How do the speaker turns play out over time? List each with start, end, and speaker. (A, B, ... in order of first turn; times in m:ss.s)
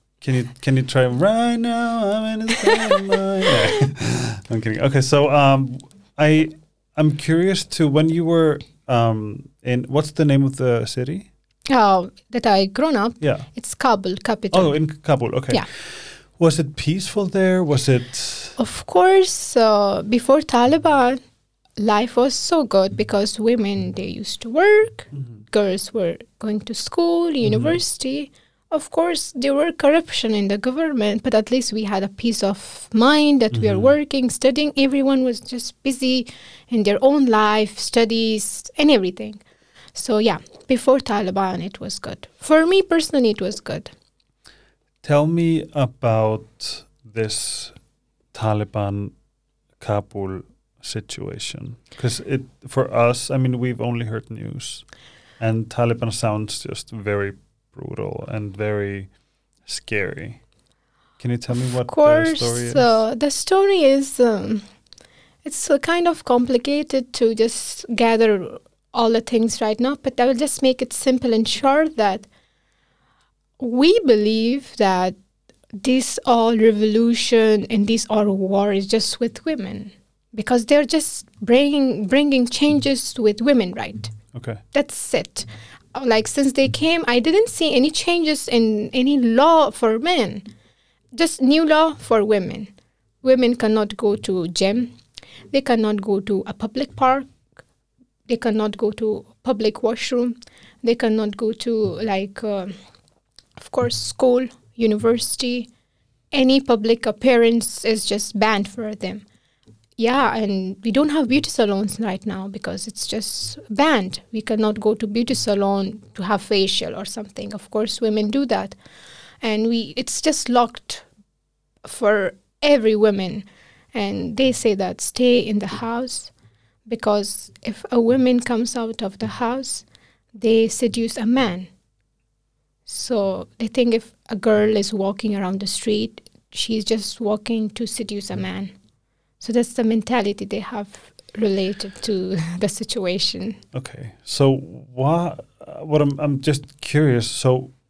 0:00.2-0:11.3 A
0:11.7-0:14.8 B
0:13.2-0:13.5 A
0:14.5-0:18.6 A
0:18.6-0:21.2 B
0:21.8-0:39.4 B
0:27.4-0:27.8 A
0:33.5-0:33.9 A
0:39.9-0:43.9 B
0:45.0-0:47.7 A
0:48.3-0:49.1 A
0:49.8-0:54.8 A
0:55.4-0:59.1 A
0:59.6-1:00.4 A
1:01.2-1:03.0 A
1:01.5-1:04.6 B
1:05.4-1:12.3 B
1:13.6-1:15.2 B
1:15.7-1:24.1 B
1:24.3-1:24.6 A
1:24.7-1:30.4 B
1:31.1-1:34.9 B
1:35.5-1:37.3 B
1:38.3-1:42.7 B
1:43.6-1:45.7 B
1:46.3-1:49.2 B
1:50.0-1:58.7 B
1:59.4-2:01.0 B
2:01.8-2:06.3 B
2:06.9-2:11.7 B
2:12.8-2:18.7 B
2:19.4-2:23.6 B
2:23.7-2:27.7 A